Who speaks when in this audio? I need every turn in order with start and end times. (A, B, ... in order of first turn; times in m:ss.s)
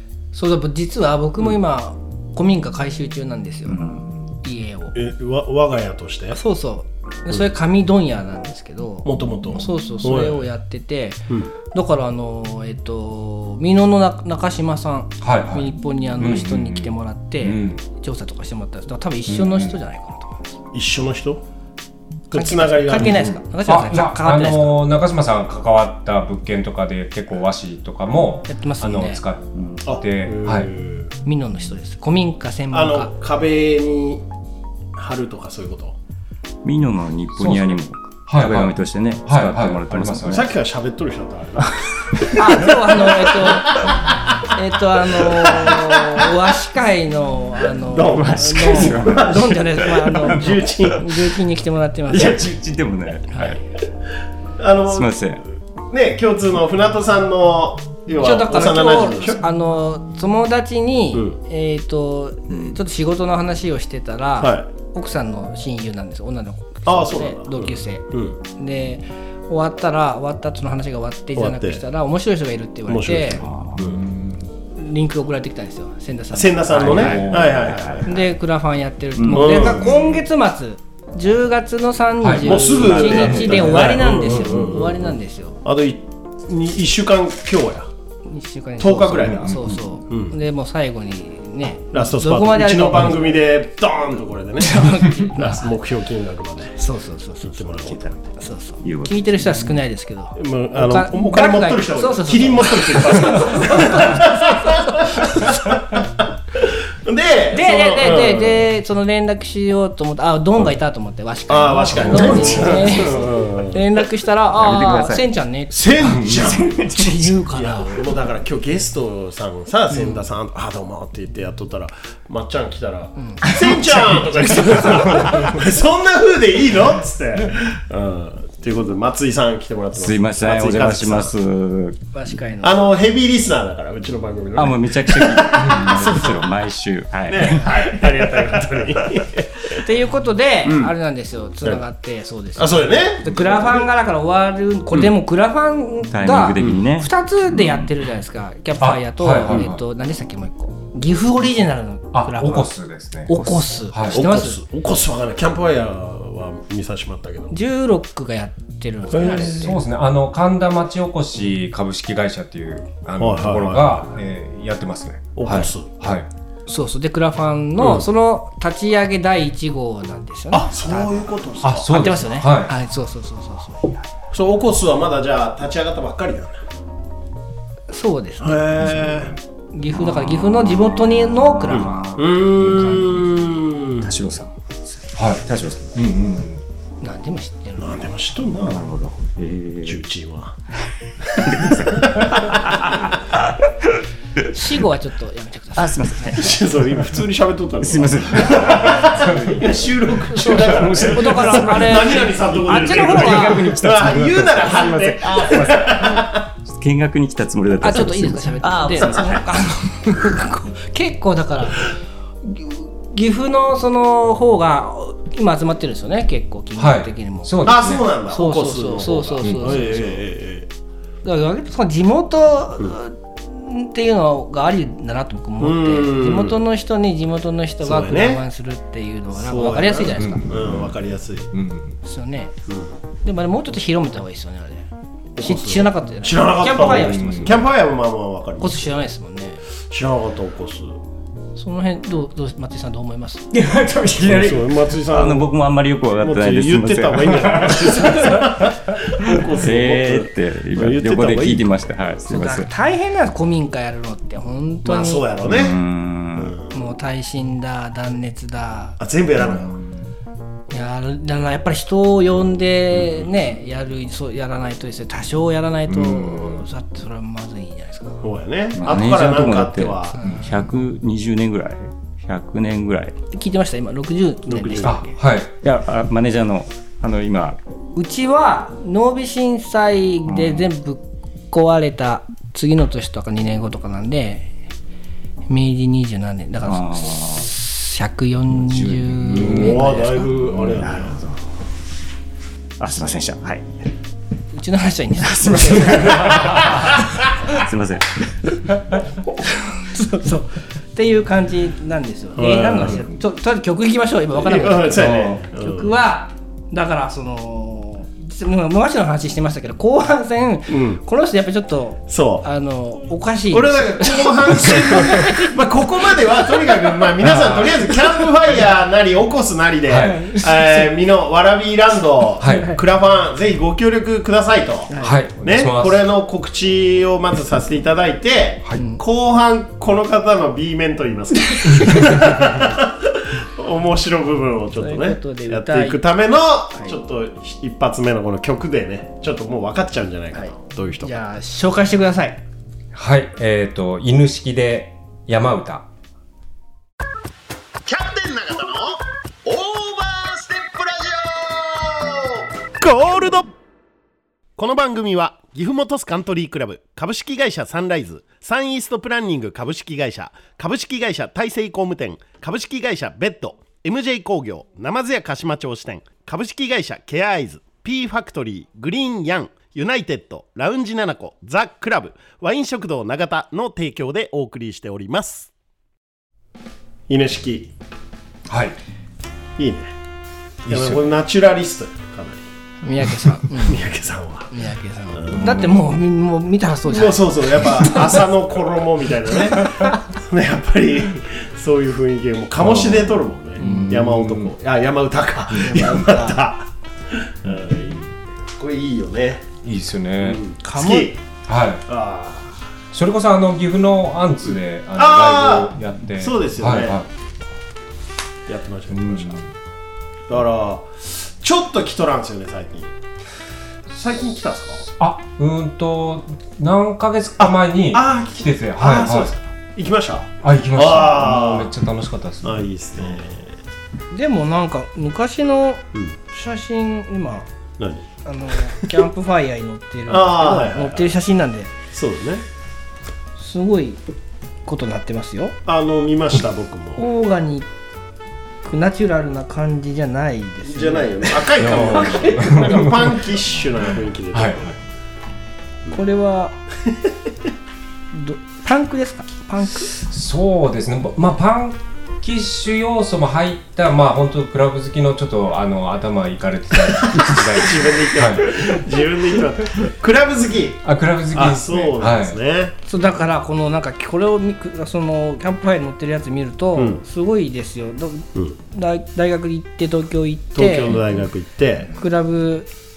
0:00.3-0:03.8 A
0:03.7-0:04.4 B
0:04.4-0:04.9 A
0:04.9-0:06.4 C
0:06.3-0:20.6 A
0:09.0-0:10.4 C
0:15.2-0:17.8 D
0:19.3-0:19.8 D
0:20.7-0:21.4 C
0:22.3-0:23.2 C
0:22.3-0:24.8 A
0:23.0-0:30.7 D
0:28.5-0:29.2 A
0:29.5-0:29.8 B
0:29.8-0:31.1 C
0:31.2-0:33.1 A
0:32.7-0:34.2 C
0:35.0-0:36.0 C
0:36.6-0:40.5 B
0:37.4-0:40.5 D
0:40.2-0:44.5 C
0:42.3-0:52.5 A
0:45.1-0:46.3 C
0:47.9-0:51.1 C
0:48.0-0:50.9 B
0:52.1-0:53.6 B
0:53.3-0:53.6 A
0:54.6-0:55.2 C
0:54.9-0:55.4 B
0:55.9-0:59.4 C
0:58.2-1:13.4 A
1:01.1-1:01.4 C
1:02.5-1:02.8 B
1:04.4-1:04.7 C
1:06.8-1:08.4 C
1:11.3-1:11.8 C
1:12.9-1:14.0 C
1:13.4-1:14.4 B
1:14.7-1:17.3 A
1:16.3-1:18.1 C
1:16.7-1:18.0 D
1:16.9-1:18.2 B
1:18.0-1:25.6 A
1:19.1-1:20.0 B
1:19.3-1:19.9 C
1:22.2-1:22.6 D
1:22.4-1:25.0 C
1:22.7-1:23.9 B
1:25.6-1:27.9 C
1:28.2-1:33.5 A
1:28.8-1:30.4 C
1:31.9-1:36.8 C
1:34.6-1:35.6 A
1:36.8-1:45.5 A
1:37.4-1:38.1 C
1:37.7-1:38.1 B
1:38.8-1:39.7 B
1:40.4-1:48.6 C
1:47.5-1:58.0 A
1:51.5-1:53.8 C
1:52.1-1:53.2 B
1:54.5-1:55.2 B
1:55.7-2:11.3 C
1:56.1-1:56.5 D
1:56.6-1:57.1 B
1:59.9-2:00.2 A
2:03.2-2:05.6 A
2:09.9-2:12.0 B
2:12.1-2:12.8 A
2:12.6-2:16.2 C
2:14.5-2:18.6 B
2:15.8-2:16.4 A
2:17.3-2:19.8 C
2:19.7-2:32.7 A
2:22.6-2:23.9 C
2:26.1-2:27.9 B
2:28.8-2:29.8 D
2:32.1-2:33.4 D
2:33.3-2:34.6 A
2:33.9-2:34.2 D
2:34.1-2:37.5 C
2:37.5-2:39.8 A
2:39.1-2:39.7 C
2:39.6-2:46.3 D
2:43.2-2:44.1 C
2:45.4-2:45.9 C
2:46.7-2:54.0 A
2:47.8-2:48.0 C
2:50.5-2:51.9 C
2:51.6-2:52.7 D
2:54.3-2:56.6 C
2:57.9-2:58.7 A
2:58.4-2:59.3 C
2:59.0-2:59.2 D
2:59.7-3:02.2 A
3:00.0-3:00.9 B
3:01.7-3:03.4 B
3:01.7-3:04.1 C
3:04.0-3:04.5 B
3:05.2-3:06.6 D
3:05.4-3:05.9 B
3:07.0-3:08.1 A
3:07.8-3:08.9 C
3:08.6-3:10.0 B
3:09.8-3:10.6 C
3:11.2-3:13.1 C
3:11.4-3:13.9 B
3:14.5-3:16.4 A
3:15.8-3:17.2 B
3:16.3-3:26.5 C
3:17.8-3:29.4 B
3:19.1-3:19.5 D
3:20.3-3:23.8 A
3:27.8-3:37.7 A
3:36.8-3:38.0 D
3:37.6-3:40.7 C
3:38.3-3:40.2 A
3:39.4-3:39.8 D
3:41.2-3:50.4 A
3:45.6-3:46.6 C
3:47.8-3:48.4 C
3:49.3-3:51.5 C
3:50.2-3:51.0 D
3:51.5-3:52.0 D
3:52.0-3:52.5 A
3:53.2-3:57.6 A
3:55.4-3:58.9 C
3:56.8-3:57.6 D
3:58.6-3:59.6 A
3:59.9-4:01.0 C
4:01.6-4:04.2 A
4:03.6-4:08.5 B
4:04.2-4:05.5 C
4:06.2-4:11.7 C
4:09.2-4:12.7 B
4:12.3-4:15.2 A
4:14.8-4:15.8 C
4:15.4-4:16.5 B
4:16.4-4:16.7 C
4:16.7-4:19.0 A
4:19.0-4:19.7 C
4:19.4-4:20.1 B
4:20.7-4:28.2 A
4:25.9-4:26.6 D
4:28.2-4:30.2 C
4:28.8-4:33.2 B
4:30.2-4:30.7 A
4:33.3-4:35.1 A
4:34.4-4:35.0 C
4:34.8-4:35.5 D
4:35.6-4:37.6 B
4:38.0-4:44.5 A
4:40.3-4:40.7 B
4:45.5-4:50.3 A
4:46.6-4:47.5 B
4:48.7-4:49.8 B
4:49.2-4:49.8 D
4:49.3-4:51.2 C
4:50.3-4:51.4 B
4:52.8-4:53.9 B
4:54.5-4:56.7 A
4:55.5-4:58.6 B
4:59.4-5:16.9 A
5:02.4-5:03.0 C
5:04.4-5:05.9 C
5:10.7-5:11.0 C
5:12.1-5:12.4 C
5:13.5-5:41.1 C
5:17.2-5:17.8 D
5:19.9-5:20.3 D
5:20.0-5:20.9 A
5:22.4-5:22.7 D
5:22.5-5:22.8 A
5:24.9-5:25.2 A
5:25.0-5:26.0 D
5:31.6-5:32.1 A
5:34.8-5:36.0 A
5:40.3-5:42.4 A
5:42.9-5:45.8 D
5:47.8-5:52.5 E
5:52.8-5:53.5 C
5:54.6-6:15.5 C
6:17.1-6:17.7 C
6:18.5-6:18.8 D
6:19.6-6:19.9 C
6:20.6-6:21.1 D
6:20.6-6:22.4 C
6:22.8-6:23.9 A
6:23.6-6:24.5 C
6:24.5-6:28.2 A
6:25.1-6:25.6 C
6:25.3-6:25.9 D
6:26.9-6:39.4 C
6:29.5-6:30.0 A
6:32.6-6:34.5 D
6:33.6-6:34.1 A
6:35.5-6:36.4 A
6:39.6-6:40.4 D
6:40.2-6:41.2 C
6:40.6-6:41.1 A
6:41.4-6:41.8 D
6:41.8-6:42.6 C
6:42.9-6:47.1 D
6:44.9-6:47.0 C
6:48.5-6:49.4 C
6:48.9-6:49.5 D
6:50.3-6:52.9 C
6:53.9-6:54.8 C
6:54.9-6:59.3 D
6:57.4-7:01.7 C
7:00.4-7:02.6 D
7:02.4-7:03.5 C
7:04.1-7:07.5 A
7:07.8-7:08.0 C
7:08.2-7:11.7 A
7:10.1-7:11.1 C
7:11.9-7:12.4 C
7:13.4-7:14.0 A
7:14.6-7:15.6 A
7:15.6-7:17.0 C
7:17.0-7:17.7 A
7:18.6-7:22.7 A
7:20.6-7:24.8 C
7:21.6-7:23.1 D
7:24.3-7:24.7 D
7:25.9-7:26.5 A
7:28.1-7:29.9 A
7:30.0-7:38.7 D
7:37.0-7:42.7 C
7:40.8-7:42.4 D
7:42.9-7:51.0 A
7:46.8-7:47.0 C
7:50.5-7:51.9 C
7:52.0-7:52.7 A